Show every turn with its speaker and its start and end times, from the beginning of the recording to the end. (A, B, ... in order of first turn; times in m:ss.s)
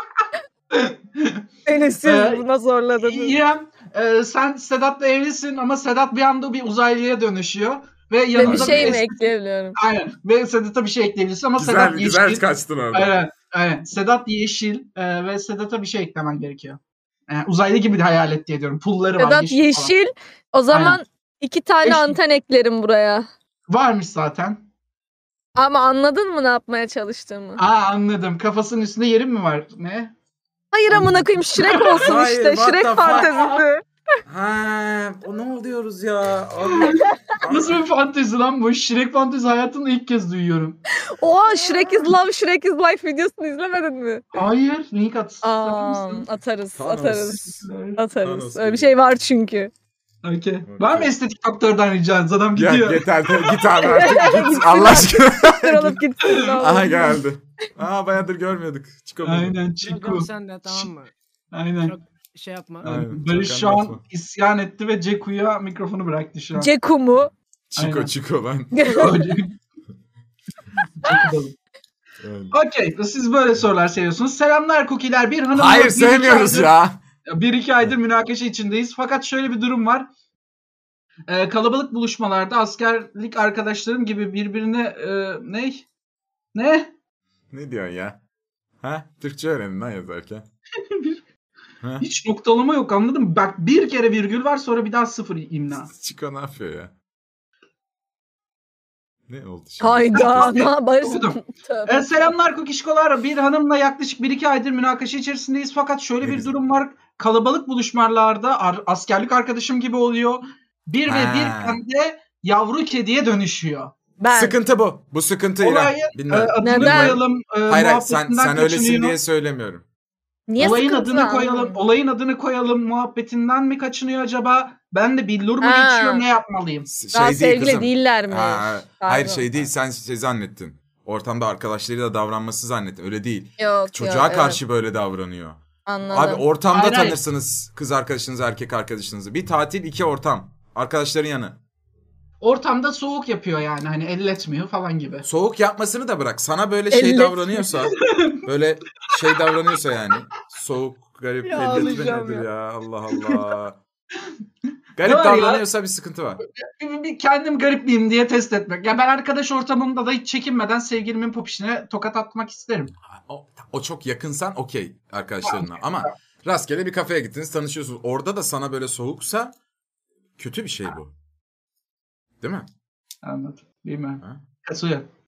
0:00.7-0:01.4 A
0:01.6-0:03.4 B
0:02.0-0:02.4 A
0:03.0-0:19.9 A
0:08.3-0:09.8 B
0:08.4-0:08.9 C
0:11.6-0:13.2 C
0:19.2-0:23.3 B
0:20.7-0:21.0 A
0:21.8-0:22.2 A
0:23.7-0:24.6 A
0:25.6-0:27.6 B
0:27.6-0:30.1 A
0:30.7-0:33.8 B
0:30.9-0:32.1 A
0:31.9-0:33.4 C
0:33.0-0:33.6 A
0:34.2-0:37.8 C
0:36.7-0:40.8 A
0:41.1-0:44.2 B
0:44.3-0:46.2 A
0:45.4-0:49.7 B
0:46.8-0:47.6 C
0:47.4-0:48.0 A
0:48.2-0:48.9 C
0:50.2-0:53.6 A
0:50.6-0:51.1 C
0:52.6-0:56.0 C
0:53.8-0:57.2 B
0:56.2-0:56.5 A
0:56.6-0:59.6 C
0:59.2-1:00.9 A
0:59.8-1:01.1 D
1:01.5-1:02.0 A
1:01.8-1:02.9 D
1:02.8-1:06.7 A
1:02.8-1:04.0 C
1:06.6-1:07.3 B
1:07.7-1:08.7 C
1:07.8-1:08.1 A
1:08.7-1:09.3 B
1:08.8-1:09.5 A
1:11.0-1:11.6 A
1:12.2-1:12.5 C
1:12.5-1:16.7 A
1:15.5-1:17.0 C
1:17.3-1:20.1 A
1:21.3-1:25.8 A
1:26.5-1:26.9 A
1:27.5-1:28.2 C
1:28.8-1:30.4 C
1:30.8-1:31.2 A
1:32.0-1:35.9 A
1:35.9-1:36.9 C
1:39.3-1:40.6 C
1:39.8-1:42.0 B
1:40.1-1:53.9 A
1:46.2-1:46.5 C
1:51.1-1:51.8 C
1:54.2-1:54.5 B
1:54.3-1:59.8 C
1:55.6-1:59.2 A
1:56.6-1:57.2 B
2:00.5-2:01.8 B
2:00.6-2:06.9 A
2:05.6-2:06.2 B
2:06.9-2:21.6 C
2:07.1-2:09.5 B
2:13.6-2:14.6 B
2:15.8-2:16.4 B
2:16.7-2:17.2 A
2:22.4-2:25.2 A
2:25.2-2:33.8 C
2:26.9-2:27.6 B
2:28.0-2:28.4 A
2:31.4-2:32.4 B
2:31.6-2:32.0 A
2:35.0-2:36.4 C
2:35.0-2:35.6 A
2:36.6-2:42.9 A
2:43.1-2:49.5 C
2:45.4-2:46.1 A
2:50.4-2:51.1 C
2:52.4-2:52.7 C
2:53.2-2:55.0 A